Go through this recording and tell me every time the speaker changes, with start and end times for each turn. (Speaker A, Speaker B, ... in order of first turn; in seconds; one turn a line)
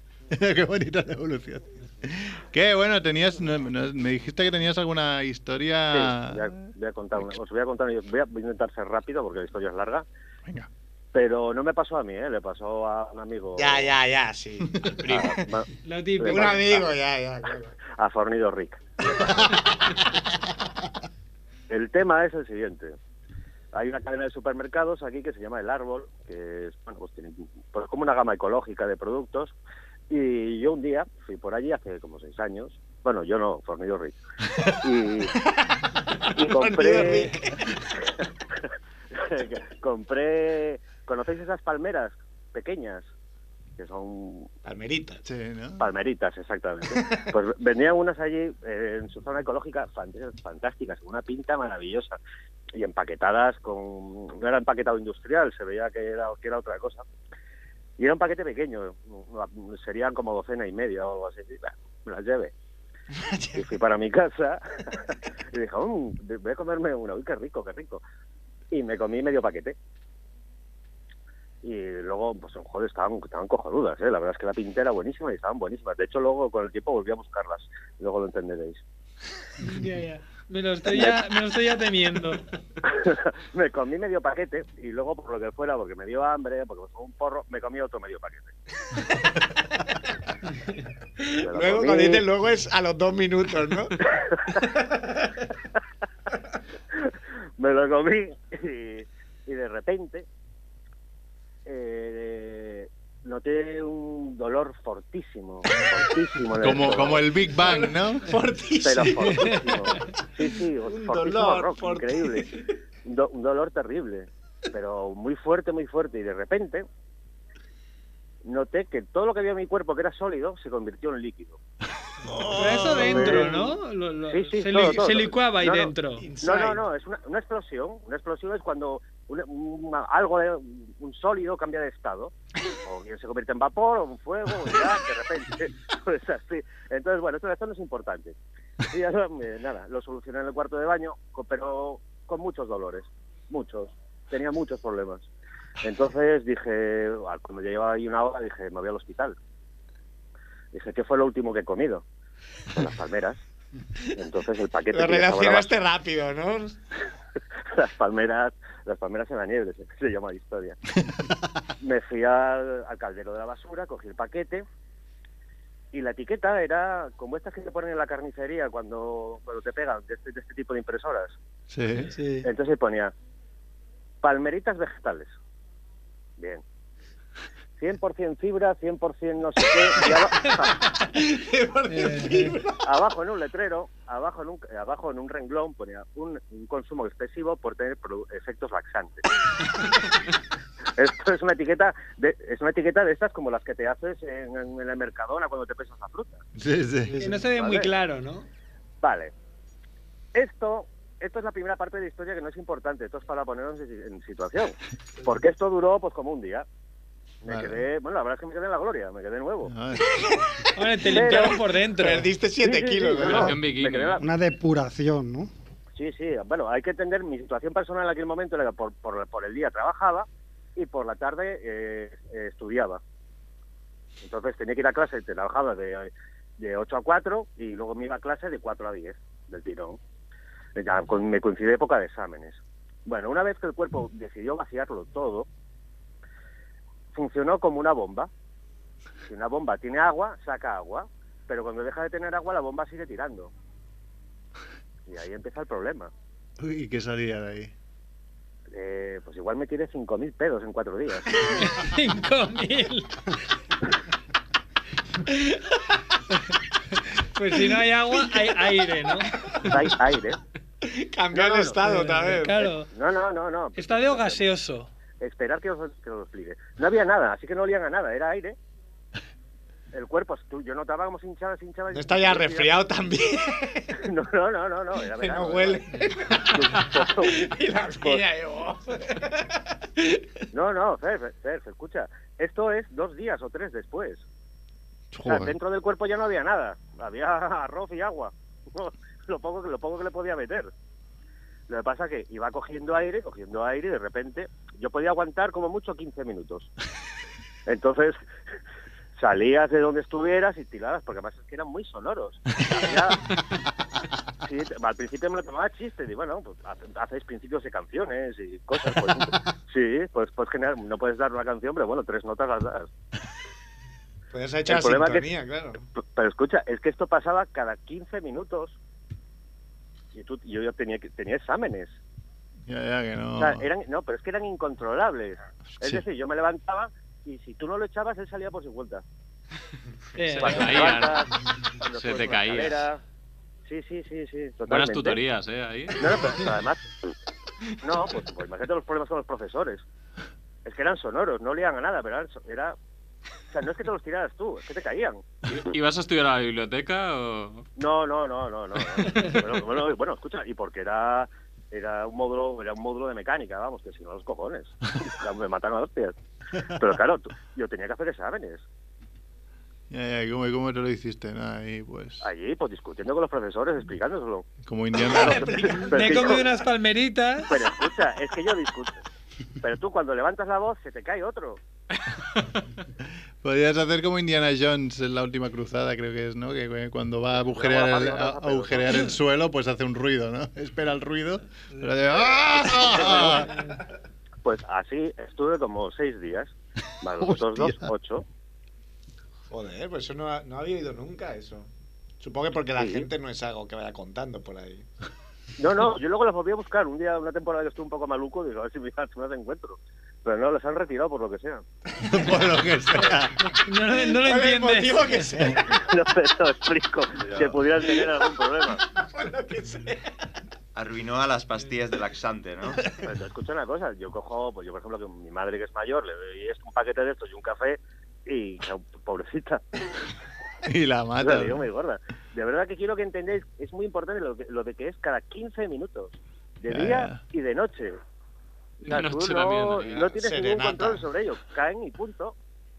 Speaker A: 0.3-7.3
Speaker B: 5.9-10.0
Speaker B: 11.1-13.9
Speaker C: 13.6-15.5
Speaker B: 15.0-15.7
Speaker D: 15.8-16.7
Speaker B: 16.2-16.9
Speaker C: 16.2-17.8
Speaker B: 17.9-18.8
Speaker C: 19.1-20.0
Speaker B: 21.7-22.9
Speaker B: 23.7-29.5
Speaker B: 30.1-34.2
Speaker B: 34.8-35.3
Speaker C: 35.2-37.8
Speaker B: 36.4-37.3
Speaker B: 39.1-43.1
Speaker B: 43.8-44.5
Speaker C: 44.6-45.2
Speaker A: 45.2-45.9
Speaker B: 45.8-52.2
Speaker C: 46.9-47.3
Speaker B: 52.7-57.0
Speaker B: 58.0-62.5
Speaker C: 63.1-63.7
Speaker B: 63.5-68.0
Speaker B: 68.7-69.8
Speaker B: 71.6-78.8
Speaker D: 79.6-82.4
Speaker B: 82.8-88.5
Speaker C: 91.2-94.0
Speaker B: 91.4-92.2
Speaker B: 94.0-94.6
Speaker C: 94.5-95.3
Speaker B: 97.0-100.2
Speaker B: 101.6-107.2
Speaker A: 106.6-108.3
Speaker C: 107.6-112.5
Speaker B: 108.8-112.5
Speaker D: 109.3-110.0
Speaker B: 113.0-116.8
Speaker B: 118.4-121.6
Speaker C: 122.2-123.7
Speaker D: 122.5-126.2
Speaker B: 123.0-123.6
Speaker B: 124.3-125.3
Speaker C: 125.6-126.8
Speaker B: 126.4-132.3
Speaker B: 132.8-145.3
Speaker B: 145.8-149.3
Speaker B: 150.7-152.0
Speaker B: 152.7-153.4
Speaker B: 154.2-155.7
Speaker C: 154.9-156.8
Speaker B: 157.7-160.8
Speaker B: 161.8-164.6
Speaker B: 165.9-171.4
Speaker A: 171.7-172.2
Speaker E: 172.1-172.4
Speaker B: 172.4-173.1
Speaker B: 174.2-175.3
Speaker B: 176.4-176.6
Speaker B: 177.8-180.8
Speaker C: 179.8-182.8
Speaker D: 181.9-182.6
Speaker B: 182.8-189.2
Speaker B: 190.9-196.4
Speaker A: 196.6-197.2
Speaker E: 197.1-197.5
Speaker D: 197.2-198.5
Speaker B: 197.5-197.9
Speaker B: 199.0-199.3
Speaker B: 200.3-206.7
Speaker B: 207.4-209.7
Speaker A: 207.5-207.8
Speaker A: 209.6-210.2
Speaker C: 210.0-213.5
Speaker D: 210.7-212.3
Speaker B: 211.1-211.6
Speaker B: 212.6-214.2
Speaker F: 213.2-214.2
Speaker E: 214.2-215.5
Speaker B: 215.9-223.0
Speaker B: 224.2-230.0
Speaker B: 230.8-235.5
Speaker B: 237.1-238.3
Speaker B: 239.3-243.5
Speaker B: 245.1-246.1
Speaker A: 246.6-247.7
Speaker B: 248.7-251.4
Speaker D: 251.6-253.3
Speaker D: 256.9-259.7
Speaker B: 259.6-260.4
Speaker C: 260.8-262.7
Speaker B: 261.3-261.8
Speaker D: 261.8-262.9
Speaker B: 262.9-264.4
Speaker D: 263.8-264.9
Speaker B: 265.2-268.6
Speaker B: 269.9-272.8
Speaker C: 271.9-274.0
Speaker B: 274.0-275.8
Speaker C: 275.0-280.3
Speaker B: 276.4-277.4
Speaker B: 280.5-284.2
Speaker A: 285.1-285.5
Speaker B: 285.2-290.7
Speaker B: 291.7-296.7
Speaker B: 297.7-298.2
Speaker B: 299.2-303.2
Speaker B: 304.4-312.9
Speaker C: 314.3-315.8
Speaker B: 314.7-315.3
Speaker B: 316.0-318.8
Speaker B: 320.1-321.9
Speaker A: 322.7-323.7
Speaker B: 323.4-329.0
Speaker A: 325.7-326.0
Speaker D: 330.1-331.0
Speaker F: 330.4-331.3
Speaker B: 330.4-333.0
Speaker F: 331.9-332.9
Speaker B: 333.6-335.2
Speaker F: 334.7-336.3
Speaker B: 336.0-336.8
Speaker B: 337.8-339.8
Speaker B: 340.6-342.8
Speaker B: 343.5-345.3
Speaker F: 345.4-347.6
Speaker B: 347.8-356.1
Speaker B: 356.8-358.6
Speaker A: 359.9-362.3
Speaker B: 362.2-364.5
Speaker A: 364.6-365.8
Speaker C: 364.9-366.4
Speaker B: 365.1-366.4
Speaker D: 365.7-367.5
Speaker B: 367.5-368.9
Speaker B: 369.6-371.6
Speaker A: 373.4-383.5
Speaker B: 377.4-379.0
Speaker B: 382.9-383.4
Speaker C: 382.9-383.3
Speaker B: 384.4-388.2
Speaker A: 387.2-387.9
Speaker C: 389.5-391.7
Speaker C: 392.2-394.9
Speaker B: 392.8-393.1
Speaker B: 395.6-401.6
Speaker A: 402.0-403.4
Speaker C: 402.0-402.3
Speaker D: 403.5-405.2
Speaker C: 404.0-405.8
Speaker B: 405.7-408.8
Speaker C: 407.8-410.1
Speaker G: 410.7-412.8
Speaker B: 413.0-419.6
Speaker A: 420.6-421.7
Speaker B: 421.2-428.0
Speaker A: 426.7-427.2
Speaker F: 428.8-430.1
Speaker B: 428.9-432.3
Speaker C: 429.9-431.1